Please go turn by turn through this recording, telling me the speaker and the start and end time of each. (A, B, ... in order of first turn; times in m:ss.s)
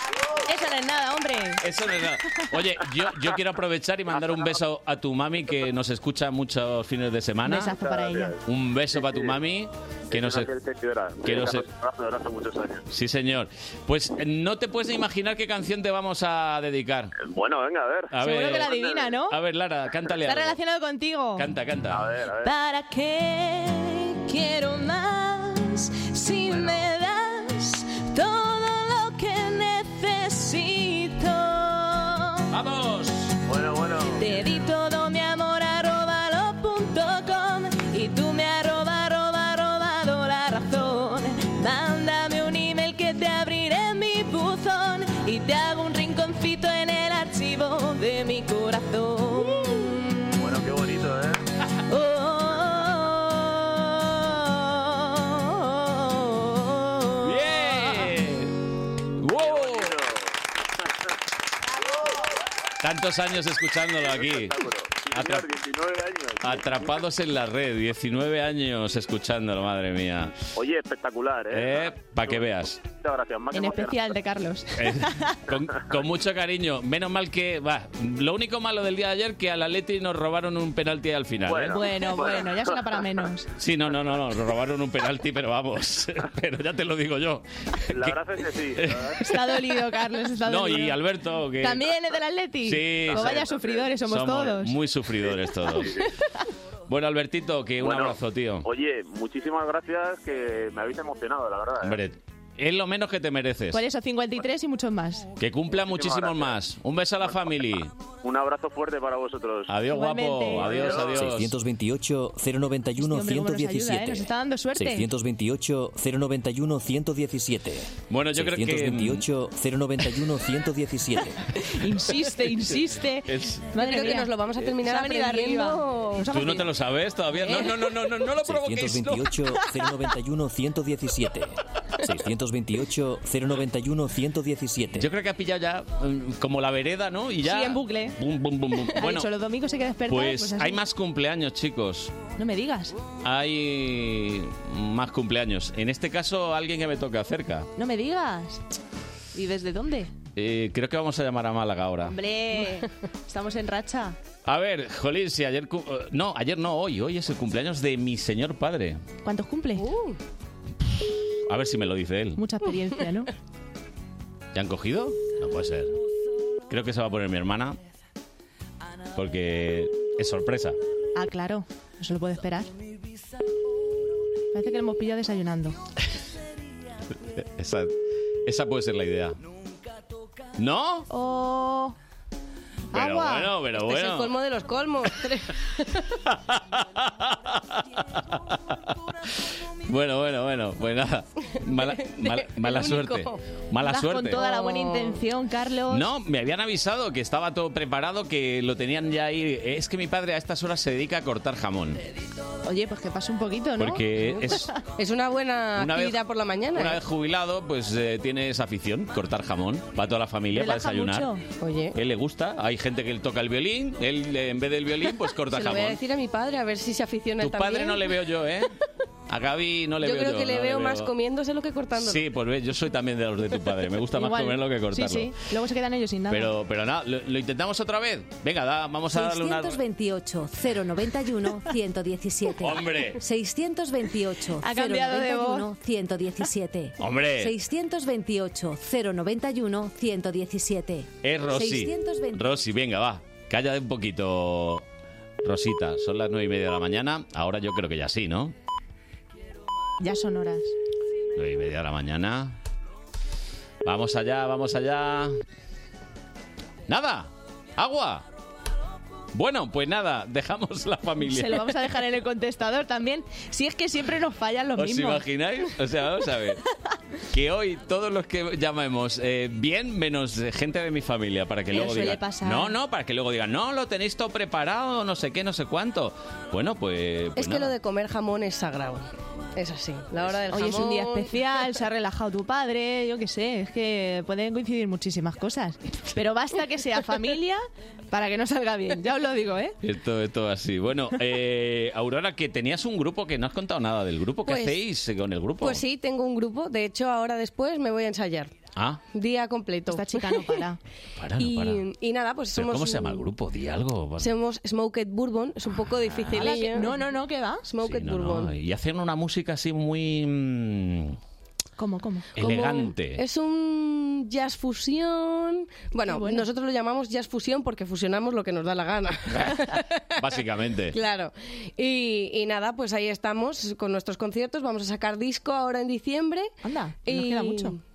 0:00.5-0:01.6 A
0:01.6-0:07.8 B
0:04.2-0:04.5 C
0:07.4-0:08.3 A
0:07.8-0:08.4 C
0:08.4-0:10.5 B
0:08.9-0:09.4 C
0:10.1-0:12.9 C
0:11.2-0:11.6 B
0:12.9-0:17.1 B
0:17.2-0:19.1 C
0:18.1-0:18.8 B
0:18.2-0:19.4 A
0:19.3-0:20.6 B
0:20.2-0:21.5 A
0:21.4-0:22.0 B
0:21.9-0:22.5 C
0:22.4-0:32.5 A
0:26.5-0:26.8 C
0:32.5-0:33.3 B
0:33.5-0:34.5 C
0:34.2-0:50.1 A
0:50.4-0:51.4 C
0:51.9-0:57.4 A
0:57.2-0:58.5 B
0:59.2-1:00.0 B
0:59.4-1:00.3 C
1:02.8-1:04.6 B
1:04.0-1:07.0 C
1:05.1-1:05.5 B
1:06.4-1:10.4 B
1:10.6-1:14.1 C
1:11.5-1:12.8 B
1:13.5-1:15.4 A
1:14.8-1:21.8 B
1:21.5-1:23.0 C
1:21.7-1:23.5 A
1:23.6-1:28.2 B
1:27.9-1:29.2 C
1:28.8-1:29.6 B
1:29.2-1:31.0 A
1:30.4-1:31.9 B
1:31.6-1:34.7 A
1:32.6-1:33.5 B
1:33.1-1:33.9 C
1:34.0-1:36.0 B
1:35.8-1:36.1 C
1:36.9-1:38.7 B
1:37.8-1:42.0 C
1:41.8-1:43.8 B
1:43.7-1:45.3 A
1:45.4-1:47.9 B
1:45.8-1:46.6 C
1:47.2-1:47.5 C
1:48.2-1:49.7 C
1:49.7-1:51.5 B
1:49.9-1:51.0 A
1:50.6-1:51.3 C
1:51.1-2:01.4 D
1:53.0-1:55.1 A
1:58.1-1:59.2 B
2:01.6-2:06.7 A
2:03.3-2:03.7 B
2:03.8-2:06.4 E
2:06.3-2:09.3 B
2:08.4-2:15.1 D
2:15.0-2:19.3 B
2:17.4-2:18.2 A
2:18.9-2:20.8 A
2:20.1-2:22.1 B
2:22.4-2:23.0 A
2:23.2-2:27.7 B
2:27.8-2:28.6 A
2:29.3-2:30.1 A
2:30.4-2:32.2 B
2:32.1-2:34.2 A
2:34.4-2:39.0 B
2:39.2-2:39.9 A
2:39.8-2:40.2 E
2:41.5-2:42.4 B
2:42.4-2:43.3 A
2:44.5-2:45.9 B
2:46.7-2:47.8 B
2:49.2-2:50.8 B
2:51.2-2:52.7 A
2:54.5-2:55.8 A
2:57.4-2:57.9 B
2:58.5-2:59.4 B
3:00.6-3:01.1 B
3:01.1-3:02.0 A
3:02.9-3:03.5 A
3:02.9-3:04.3 B
3:03.8-3:06.0 E
3:06.3-3:09.3 B
3:09.8-3:14.4 B
3:11.7-3:13.4 E
3:13.8-3:16.1 A
3:14.3-3:15.2 E
3:15.9-3:22.0 B
3:22.6-3:24.7 A
3:23.8-3:24.7 B
3:25.0-3:27.0 E
3:25.8-3:26.2 B
3:26.7-3:31.3 B
3:30.6-3:31.4 A
3:31.6-3:32.0 E
3:32.0-3:36.0 B
3:35.5-3:38.1 E
3:37.4-3:38.8 B
3:39.3-3:41.1 B
3:40.0-3:42.2 E
3:42.0-3:45.4 B
3:44.2-3:46.5 A
3:46.3-3:49.8 B
3:49.1-4:02.6 F
3:52.6-3:53.2 B
3:54.6-3:55.7 A
3:57.0-3:57.6 B
4:01.2-4:04.8 B
4:05.4-4:08.5 B
4:10.0-4:10.7 A
4:11.4-4:12.6 B
4:13.8-4:15.3 B
4:16.9-4:18.2 B
4:19.3-4:21.7 B
4:21.2-4:25.2 A
4:24.8-4:26.6 B
4:27.3-4:37.7 B
4:31.7-4:32.7 A
4:37.4-4:41.4 E
4:40.5-4:49.8 A
4:49.8-4:55.8 B
4:54.5-4:54.8 E
4:55.6-4:58.6 E
4:58.8-4:59.0 B
4:59.1-5:00.6 E
4:59.9-5:00.8 A
5:01.2-5:01.8 B
5:01.4-5:03.3 E
5:02.6-5:04.3 B
5:04.2-5:07.0 E
5:05.8-5:06.5 B
5:06.3-5:07.6 A
5:07.7-5:08.5 E
5:07.8-5:11.2 B
5:11.8-5:12.3 A
5:12.4-5:13.2 B
5:12.4-5:20.2 E
5:16.1-5:16.5 A
5:19.3-5:21.0 B
5:20.9-5:26.5 E
5:26.6-5:27.8 A
5:27.0-5:27.8 E